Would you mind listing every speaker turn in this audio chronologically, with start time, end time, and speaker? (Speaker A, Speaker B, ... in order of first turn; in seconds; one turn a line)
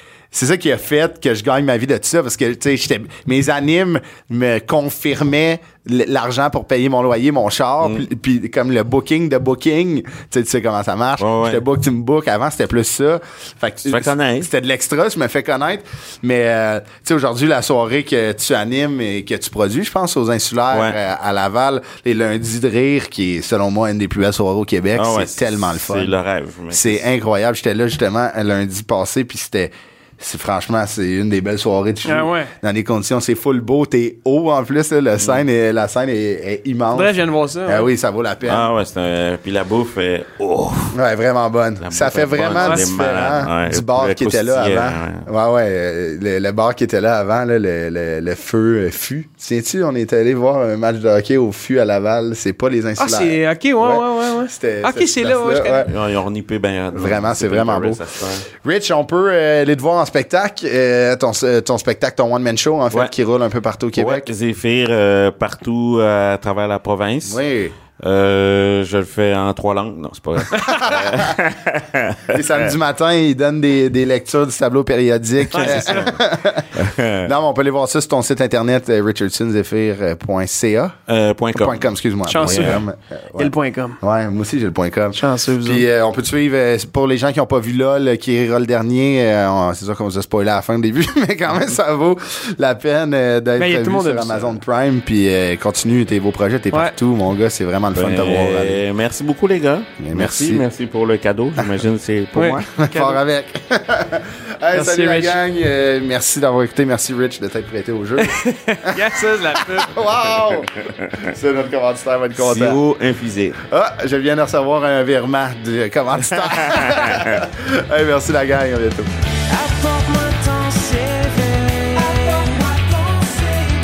Speaker A: 0.3-26.1
Speaker B: 7.8-8.1
Speaker B: 11.2-11.6
Speaker B: 13.8-14.5
Speaker B: 20.7-21.0
Speaker B: 24.9-27.0
Speaker A: 26.7-37.1
Speaker C: 32.0-32.5
Speaker B: 35.2-35.4
Speaker C: 36.9-37.9
Speaker A: 37.7-38.7
Speaker B: 38.4-41.0
Speaker A: 40.9-55.9
Speaker B: 41.8-45.3
Speaker C: 42.6-42.9
Speaker C: 53.0-55.9
Speaker B: 55.9-58.5
Speaker A: 56.9-64.3
Speaker B: 64.0-67.4
Speaker A: 67.2-67.8
Speaker B: 68.0-72.7
Speaker A: 70.6-71.4
Speaker A: 72.3-81.0
Speaker B: 75.5-76.2
Speaker C: 75.5-76.2
Speaker B: 76.7-77.3
Speaker B: 81.1-82.8
Speaker A: 81.5-98.8
Speaker C: 82.3-82.8
Speaker C: 83.4-84.0
Speaker C: 85.1-85.8
Speaker C: 93.6-94.5
Speaker B: 98.0-102.6
Speaker A: 100.0-100.6
Speaker C: 102.3-103.2
Speaker A: 102.4-112.8
Speaker C: 104.7-105.4
Speaker C: 108.2-110.1
Speaker B: 110.5-111.2
Speaker B: 112.4-113.6
Speaker A: 113.7-119.1
Speaker B: 116.4-117.4
Speaker C: 119.5-123.7